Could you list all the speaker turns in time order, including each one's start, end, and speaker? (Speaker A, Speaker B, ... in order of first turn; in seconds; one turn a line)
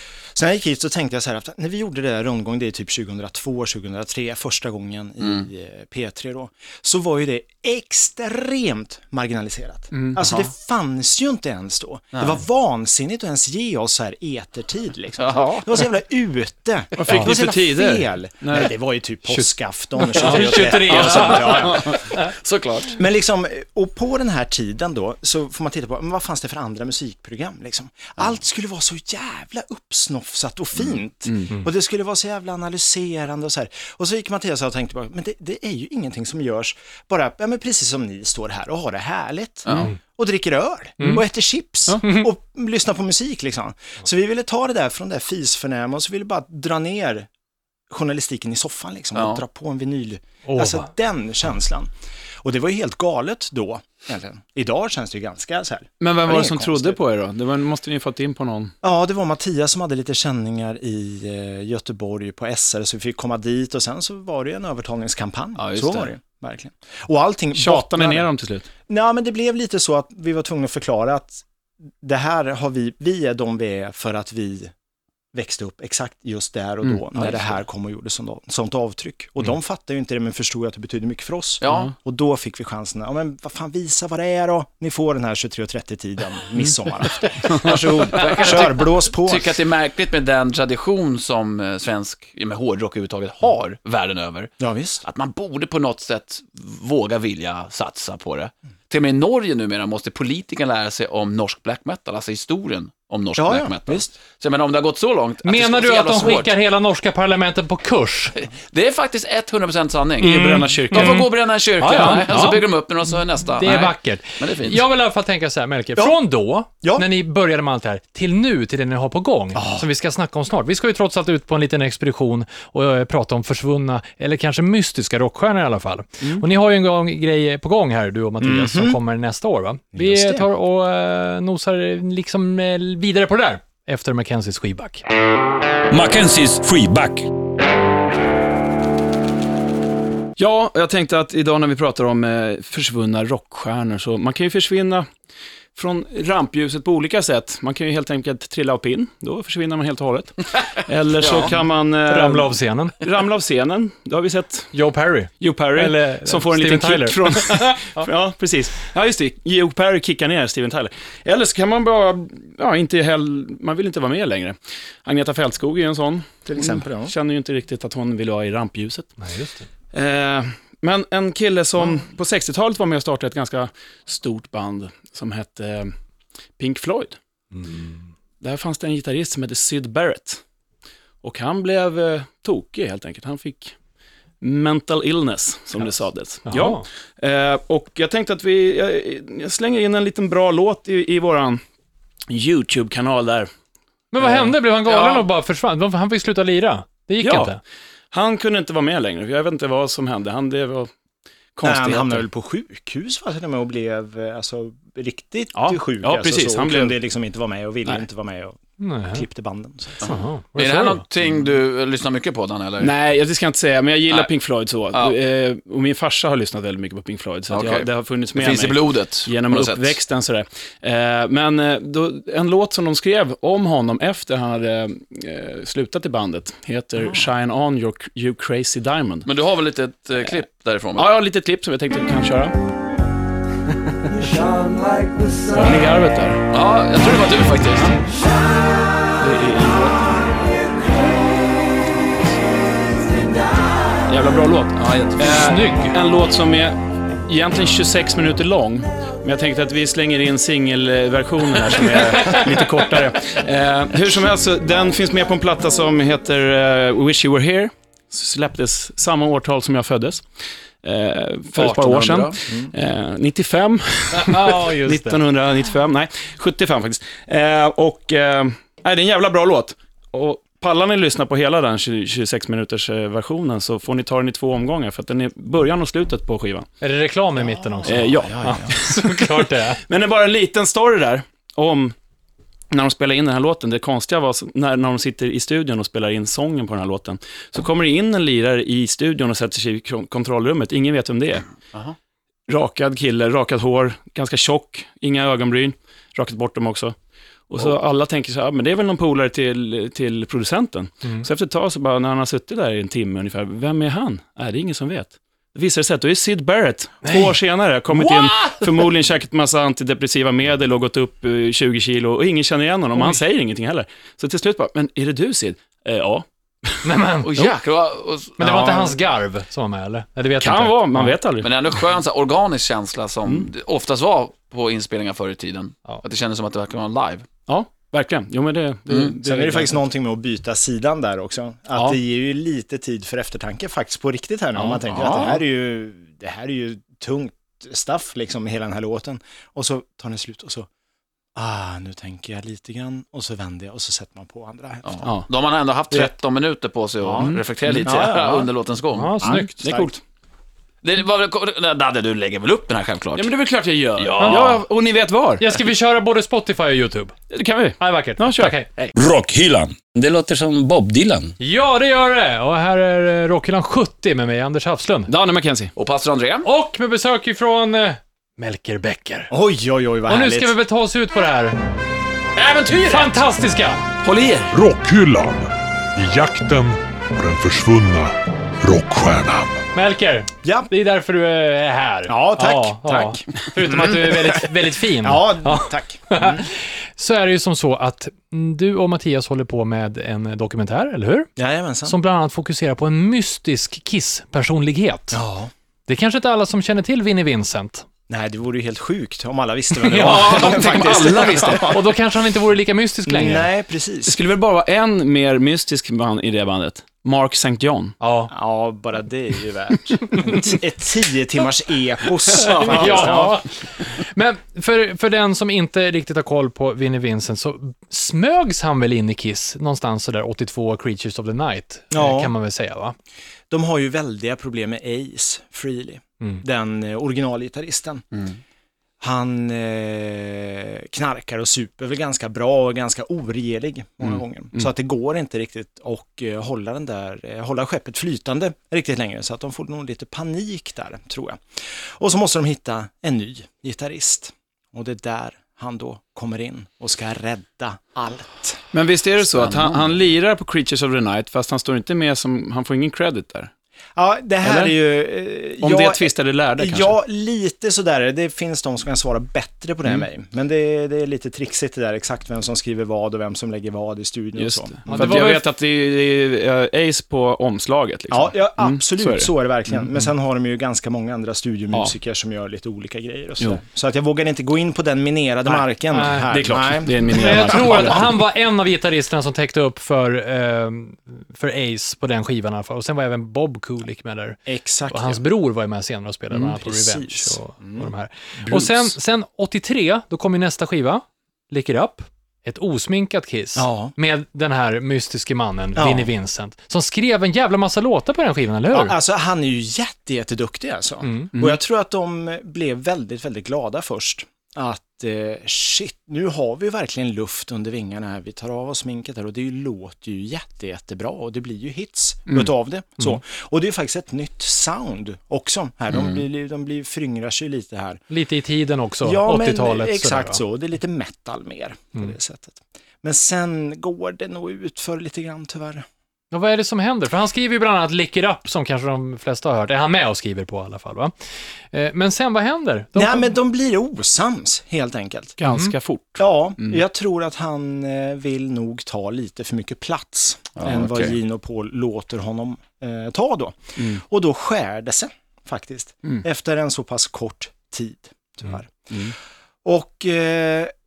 Speaker A: 0.3-22.1
Speaker B: 9.9-10.2
Speaker C: 12.2-12.4
Speaker C: 15.2-15.8
Speaker B: 17.0-18.7
Speaker D: 20.0-22.3
Speaker B: 20.9-21.4
Speaker C: 21.4-23.0
Speaker A: 22.9-47.3
Speaker C: 39.7-39.9
Speaker D: 42.0-42.3
Speaker A: 47.9-51.9
Speaker C: 49.1-49.4
Speaker D: 50.5-50.9
Speaker A: 52.4-57.0
Speaker B: 56.0-58.7
Speaker A: 58.8-68.3
Speaker C: 65.6-66.1
Speaker B: 67.5-68.7
Speaker A: 68.9-71.4
Speaker A: 72.0-74.7
Speaker A: 75.3-89.5
Speaker B: 76.8-77.5
Speaker C: 81.6-81.9
Speaker C: 87.6-106.5
Speaker A: 94.6-95.0
Speaker A: 103.4-104.2
Speaker D: 105.4-108.4
Speaker C: 108.7-114.8
Speaker D: 110.2-111.3
Speaker B: 110.2-111.2
Speaker D: 111.8-112.6
Speaker B: 112.0-112.5
Speaker D: 113.6-135.0
Speaker A: 119.5-119.9
Speaker A: 128.4-129.0
Speaker A: 129.9-130.5
Speaker E: 135.9-137.3
Speaker B: 140.4-145.1
Speaker B: 145.8-154.7
Speaker C: 151.2-151.5
Speaker D: 152.1-153.0
Speaker D: 154.7-158.0
Speaker B: 155.4-169.1
Speaker A: 166.5-167.1
Speaker D: 169.2-169.7
Speaker B: 169.9-175.9
Speaker B: 176.6-177.2
Speaker D: 177.5-178.0
Speaker B: 178.4-180.4
Speaker B: 181.2-183.8
Speaker B: 184.4-191.6
Speaker D: 186.5-186.9
Speaker B: 192.3-193.5
Speaker D: 194.1-197.6
Speaker C: 194.8-195.3
Speaker B: 197.2-197.6
Speaker B: 198.1-200.9
Speaker B: 201.6-202.2
Speaker A: 201.6-208.6
Speaker B: 205.6-207.0
Speaker D: 208.8-209.2
Speaker A: 209.1-210.0
Speaker D: 210.0-211.0
Speaker C: 210.0-212.9
Speaker B: 212.8-229.3
Speaker C: 214.9-215.2
Speaker C: 217.5-220.0
Speaker C: 229.3-231.1
Speaker B: 231.0-232.6
Speaker B: 235.5-236.4
Speaker C: 236.5-237.9
Speaker B: 239.2-240.3
Speaker B: 244.1-260.3
Speaker C: 244.8-245.4
Speaker D: 245.2-246.0
Speaker D: 252.2-252.9
Speaker B: 260.8-276.7
Speaker C: 261.5-262.4
Speaker D: 264.1-265.2
Speaker D: 276.8-279.8
Speaker A: 277.6-278.8
Speaker B: 277.9-281.9
Speaker B: 282.7-291.5
Speaker B: 292.5-296.9
Speaker B: 297.5-316.8
Speaker D: 307.0-307.3
Speaker D: 307.9-308.9
Speaker D: 312.9-313.2
Speaker D: 316.8-317.6
Speaker C: 317.2-318.9
Speaker D: 318.4-321.2
Speaker B: 320.4-321.5
Speaker C: 321.4-327.3
Speaker B: 327.5-329.8
Speaker A: 329.2-340.7
Speaker C: 334.8-335.3
Speaker B: 334.9-335.3
Speaker A: 341.4-345.1
Speaker C: 344.9-349.1
Speaker A: 347.0-348.5
Speaker B: 347.2-348.1
Speaker D: 348.9-349.5
Speaker A: 349.2-349.9
Speaker B: 349.6-350.0
Speaker C: 350.8-353.3
Speaker B: 353.1-355.4
Speaker C: 354.0-354.6
Speaker D: 354.1-354.6
Speaker D: 355.4-357.1
Speaker B: 357.3-358.6
Speaker D: 357.8-358.7
Speaker E: 358.9-361.3
Speaker D: 361.4-365.1
Speaker B: 365.1-365.7
Speaker C: 365.8-366.5
Speaker D: 366.4-369.3
Speaker A: 369.3-370.6
Speaker D: 370.1-371.6
Speaker C: 372.4-373.1
Speaker D: 372.9-373.8
Speaker B: 374.0-374.5
Speaker F: 374.5-379.7
Speaker D: 379.8-391.3
Speaker A: 380.4-380.7
Speaker A: 382.1-386.5
Speaker A: 391.4-392.0
Speaker D: 391.9-395.2
Speaker A: 395.1-395.5
Speaker D: 395.9-397.9
Speaker A: 398.1-401.8
Speaker D: 399.9-400.9
Speaker B: 399.9-401.8
Speaker D: 401.6-403.5
Speaker A: 403.1-404.2
Speaker B: 404.1-408.0
Speaker D: 408.0-408.3
Speaker A: 408.3-413.4
Speaker D: 412.4-422.9
Speaker B: 412.6-413.2
Speaker A: 421.9-422.3
Speaker A: 423.5-428.1
Speaker A: 429.0-448.6
Speaker B: 448.7-453.5
Speaker A: 454.0-465.4
Speaker B: 454.4-454.7
Speaker B: 455.6-456.9
Speaker B: 464.4-470.0
Speaker D: 464.9-465.4
Speaker A: 468.1-478.0
Speaker D: 475.9-476.3
Speaker B: 476.3-478.0
Speaker D: 477.1-498.9
Speaker A: 484.5-485.2
Speaker A: 486.3-487.9
Speaker A: 493.6-493.9
Speaker A: 495.8-496.1
Speaker A: 498.7-518.0
Speaker D: 501.0-501.3
Speaker D: 518.1-520.4
Speaker A: 519.0-525.9
Speaker D: 526.3-531.1
Speaker D: 531.7-533.3
Speaker A: 533.0-535.4
Speaker B: 535.4-536.8
Speaker D: 535.5-535.7
Speaker A: 536.2-549.1
Speaker C: 540.6-541.2
Speaker A: 549.6-550.7